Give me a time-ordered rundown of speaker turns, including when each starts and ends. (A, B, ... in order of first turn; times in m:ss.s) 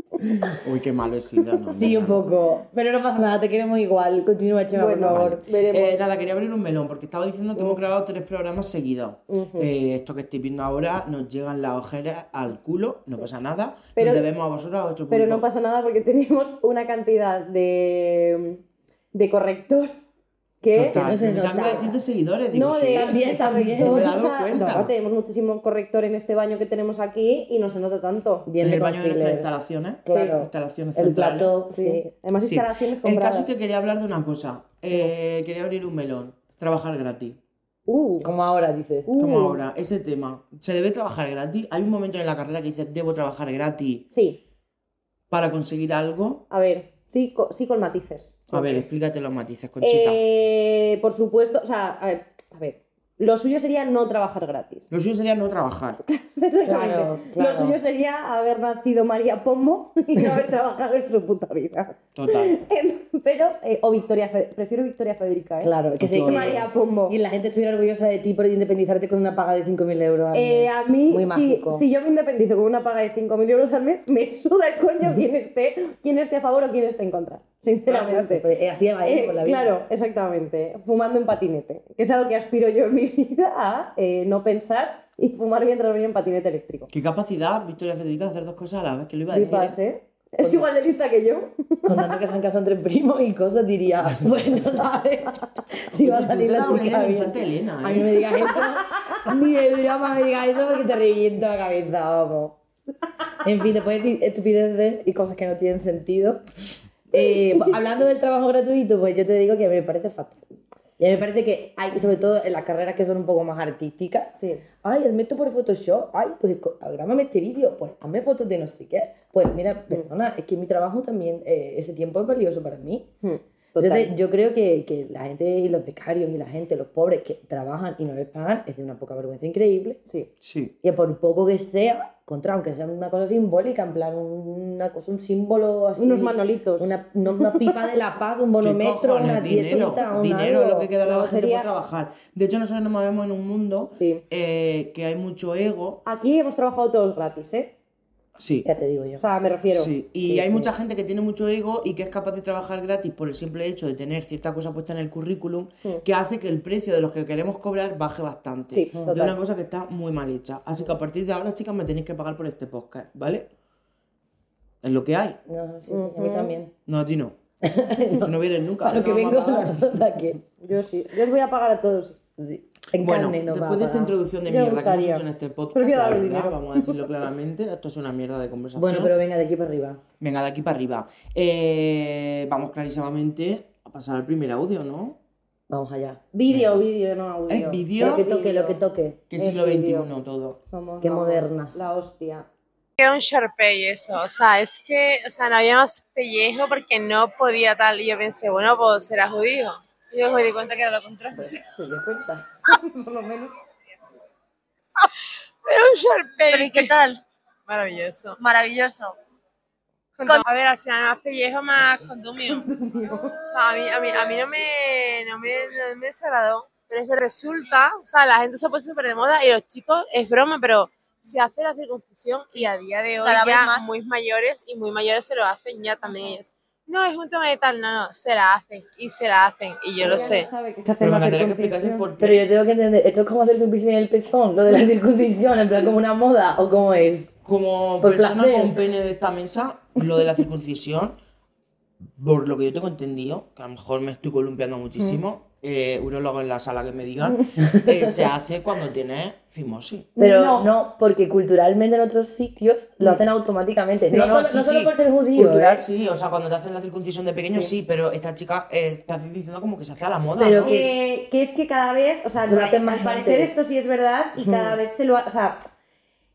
0:00.2-0:02.2 A
0:01.7-0:05.4 B
0:04.7-0:06.0 C
0:05.1-0:15.4 A
0:09.3-0:09.7 C
0:14.0-0:14.2 C
0:15.1-0:18.6 C
0:19.1-0:19.9 C
0:20.6-0:21.7 C
0:20.7-0:24.9 A
0:20.9-0:22.0 B
0:22.5-0:28.5 C
0:22.9-0:24.1 B
0:28.5-0:29.5 B
0:28.6-0:31.5 A
0:30.1-0:32.1 B
0:30.1-0:30.4 C
0:31.7-0:33.5 C
0:32.4-0:37.4 A
0:37.9-0:38.3 C
0:38.2-0:39.1 B
0:39.1-0:39.6 C
0:39.2-0:44.1 A
0:44.1-0:44.4 C
0:45.3-0:46.4 A
0:46.5-0:48.8 C
0:48.5-0:50.2 A
0:49.8-0:54.9 C
0:54.9-0:56.0 A
0:56.1-1:05.7 C
0:56.6-0:57.8 B
1:02.2-1:02.6 A
1:05.6-1:11.8 B
1:06.0-1:06.7 A
1:06.3-1:07.2 C
1:10.3-1:18.5 C
1:17.9-1:19.8 B
1:19.0-1:26.9 C
1:26.9-1:29.8 A
1:29.3-1:32.1 C
1:30.4-1:30.7 B
1:31.9-1:42.6 B
1:35.9-1:38.2 A
1:43.4-1:46.5 B
1:47.1-1:50.4 B
1:51.0-2:03.1 B
1:54.4-1:54.6 C
2:03.2-2:04.1 C
2:03.8-2:10.0 B
2:10.4-2:10.7 A
2:10.8-2:20.9 B
2:16.0-2:17.9 C
2:18.6-2:26.0 A
2:19.8-2:20.1 C
2:21.0-2:21.7 C
2:26.0-2:27.7 C
2:28.4-2:28.7 A
2:28.6-2:29.2 B
2:29.2-2:29.9 C
2:29.7-2:43.5 A
2:30.2-2:30.7 B
2:38.7-2:39.3 C
2:39.0-2:39.3 B
2:44.8-2:45.4 A
2:45.5-2:46.7 B
2:45.9-2:46.5 C
2:46.9-2:47.4 A
2:47.6-2:50.4 B
2:48.2-2:49.8 A
2:50.6-2:52.2 C
2:52.4-2:54.1 B
2:53.0-2:59.1 A
2:54.5-2:57.0 C
2:58.8-3:00.0 B
3:00.2-3:05.2 A
3:05.7-3:06.2 B
3:06.3-3:08.8 C
3:06.5-3:06.8 A
3:07.5-3:08.3 A
3:08.0-3:09.2 B
3:09.3-3:10.6 A
3:09.4-3:12.5 C
3:11.0-3:11.8 B
3:13.0-3:21.6 D
3:21.4-3:23.6 C
3:21.8-3:22.2 B
3:25.6-3:27.0 D
3:26.5-3:27.2 E
3:27.7-3:28.4 D
3:28.4-3:29.2 E
3:30.2-3:32.7 D
3:32.6-3:33.4 C
3:33.4-3:50.5 D
3:43.2-3:43.9 E
3:50.0-3:52.1 C
3:51.0-3:52.4 A
3:52.2-3:57.3 B
3:57.4-4:01.2 A
3:58.0-3:58.8 B
4:02.2-4:10.1 A
4:07.6-4:08.3 B
4:10.2-4:10.7 C
4:10.2-4:15.8 B
4:14.1-4:20.7 A
4:20.3-4:20.9 B
4:20.6-4:25.7 C
4:22.5-4:23.5 B
4:24.4-4:24.8 B